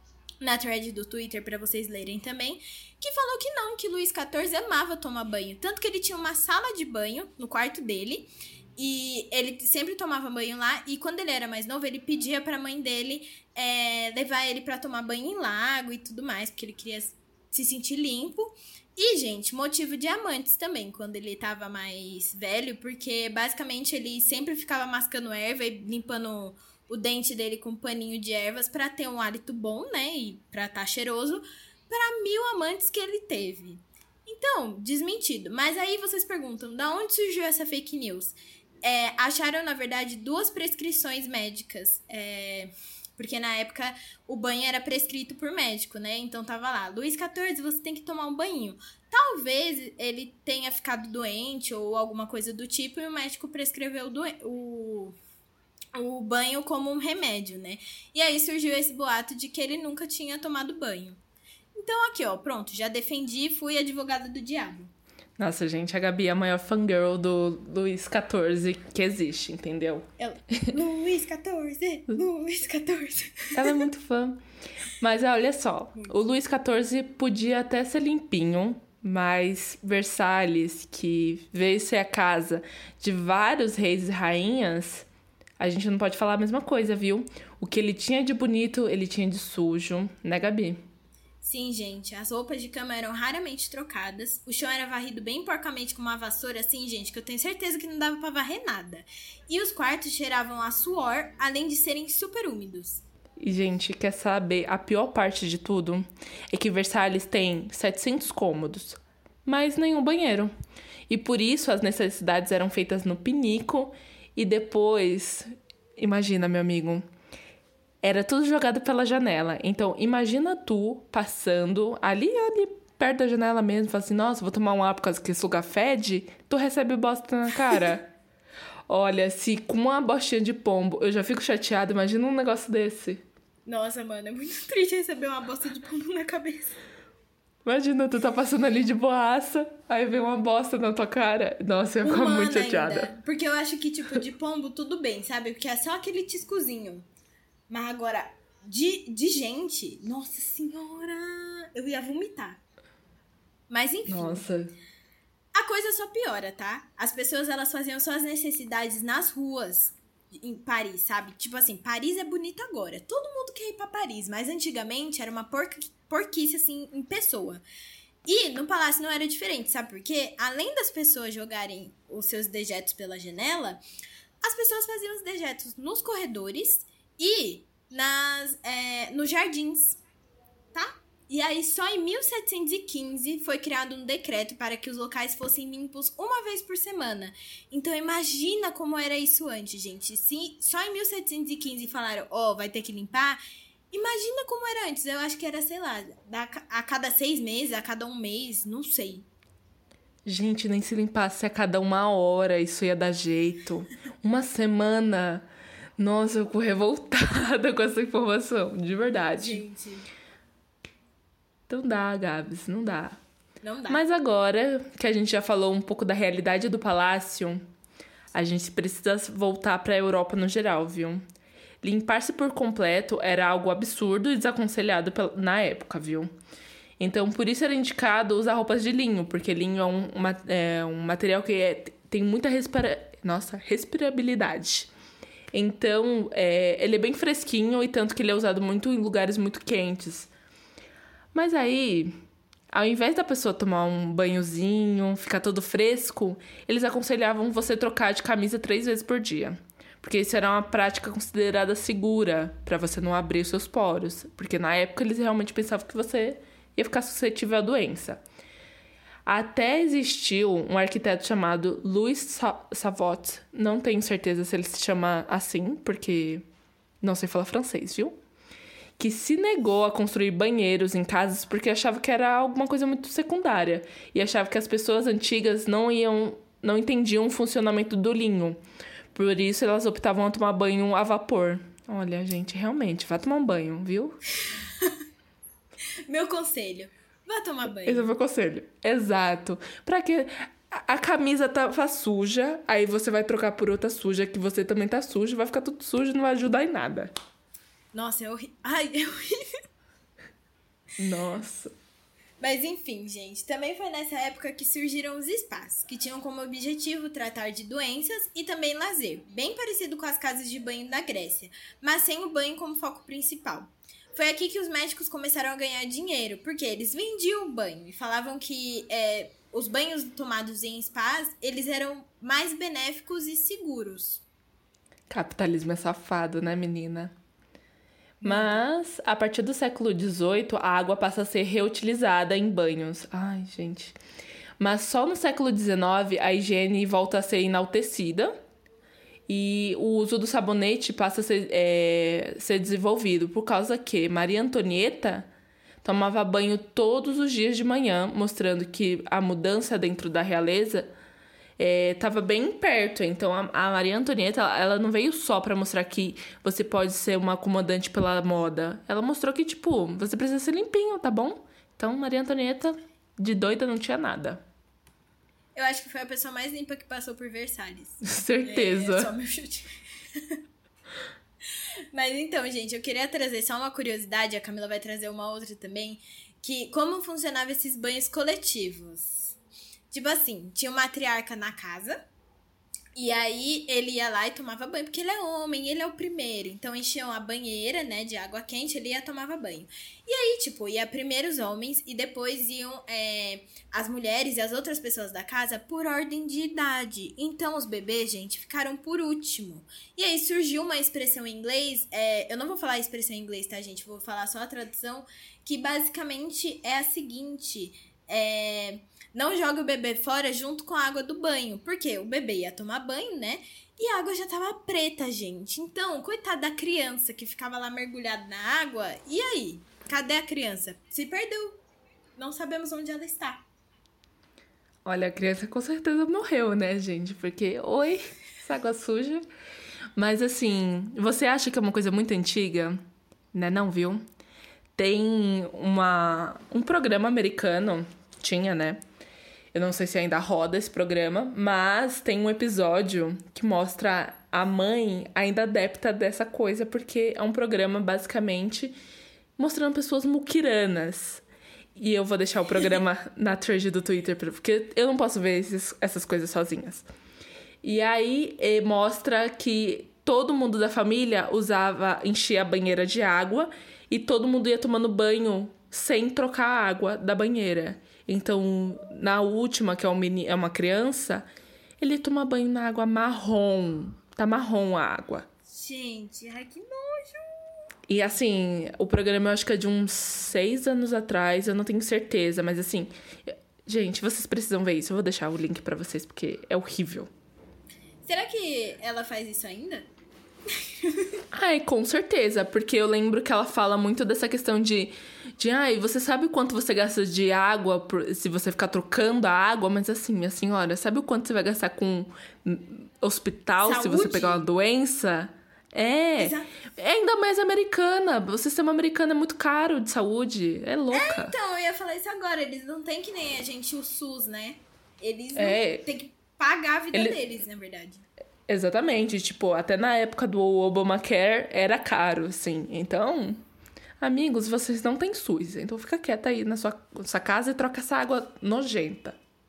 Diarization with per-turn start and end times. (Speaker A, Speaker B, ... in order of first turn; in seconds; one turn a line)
Speaker A: 0.4-55.2
Speaker A: 55.9-61.2
Speaker A: 61.8-64.9
Speaker B: 65.4-70.7
Speaker A: 70.2-73.8
Speaker B: 73.5-74.4
Speaker B: 75.0-85.1
Speaker B: 85.6-90.8
Speaker A: 91.4-103.0
Speaker B: 103.4-110.5
Speaker B: 111.1-115.5
Speaker B: 116.0-117.0
Speaker B: 118.0-128.1
Speaker B: 128.9-133.2
Speaker A: 133.7-136.8
Speaker B: 137.7-143.1
Speaker A: 142.0-147.1
Speaker A: 147.7-152.6
Speaker A: 153.7-154.4
Speaker B: 154.1-154.8
Speaker A: 155.6-167.6
Speaker A: 168.2-173.8
Speaker A: 174.4-180.0
Speaker A: 180.7-193.4
Speaker A: 193.9-199.3
Speaker B: 200.2-205.5
Speaker B: 206.0-209.6
Speaker A: 209.3-210.1
Speaker B: 211.7-213.2
Speaker A: 213.6-214.0
Speaker B: 213.9-217.6
Speaker B: 218.3-221.2
Speaker B: 221.8-226.3
Speaker B: 227.0-234.9
Speaker B: 235.5-240.3
Speaker B: 241.3-242.1
Speaker B: 242.7-258.2
Speaker B: 259.3-266.5
Speaker B: 267.0-268.2
Speaker B: 269.0-278.6
Speaker B: 279.1-284.2
Speaker A: 284.5-284.9
Speaker A: 286.1-288.1
Speaker B: 287.8-297.1
Speaker A: 297.9-299.5
Speaker B: 301.0-301.7
Speaker A: 302.4-324.2
Speaker B: 325.1-327.1
Speaker A: 328.2-328.6
Speaker B: 328.2-333.9
Speaker B: 334.6-338.3
Speaker B: 339.3-345.3
Speaker B: 345.8-350.9
Speaker B: 351.6-364.4
Speaker A: 365.6-370.4
Speaker B: 368.0-369.1
Speaker A: 371.9-379.4
Speaker A: 379.9-382.0
Speaker A: 382.9-421.6
Speaker A: 422.2-423.4
Speaker B: 424.9-429.2
Speaker B: 430.0-432.8
Speaker B: 433.3-434.0
Speaker B: 434.8-438.8
Speaker B: 439.5-448.8
Speaker B: 449.4-451.2
Speaker B: 451.8-456.9
Speaker B: 457.6-471.3
Speaker B: 471.8-475.3
Speaker A: 475.5-477.5
Speaker B: 477.9-487.1
Speaker A: 488.1-489.9
Speaker A: 490.5-491.2
Speaker B: 491.3-511.4
Speaker A: 503.6-504.4
Speaker A: 506.2-506.5
Speaker A: 510.9-518.0
Speaker B: 515.4-515.9
Speaker B: 516.9-517.2
Speaker B: 518.5-523.4
Speaker B: 524.0-529.2